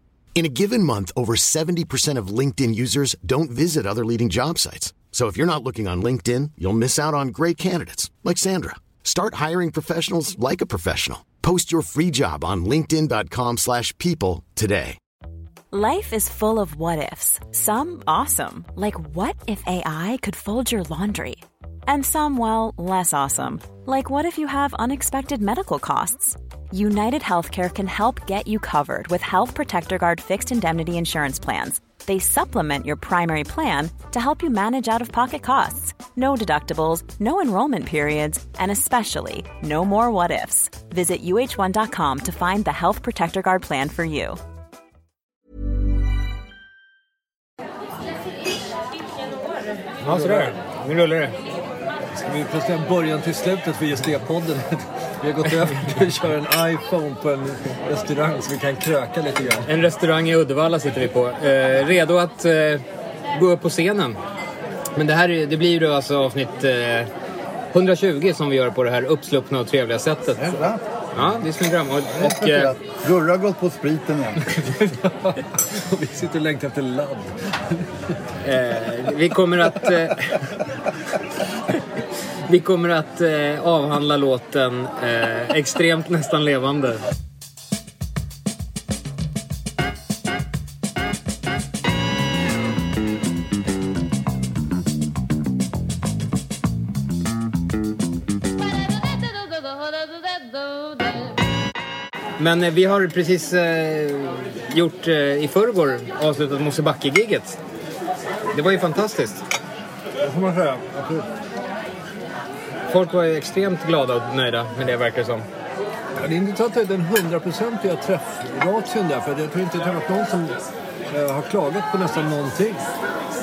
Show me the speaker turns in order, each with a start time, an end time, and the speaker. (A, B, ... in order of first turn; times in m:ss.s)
0:00.4-0:15.0 A
0:15.7-0:44.4 B
0:50.0-0:51.4 C
0:50.0-0:50.6 D
0:52.1-0:59.7 D
0:59.7-1:04.2 C
1:05.0-1:07.1 C
1:07.7-1:10.6 C
1:10.4-1:10.8 E
1:11.2-1:12.7 C
1:12.1-1:14.4 E
1:14.8-1:18.2 D
1:18.4-1:20.4 C
1:22.5-1:27.0 C
1:42.4-1:47.6 C
1:48.5-1:49.4 C
1:50.2-1:51.3 D
1:52.9-1:55.5 C
1:56.2-2:00.6 D
2:01.1-2:02.8 D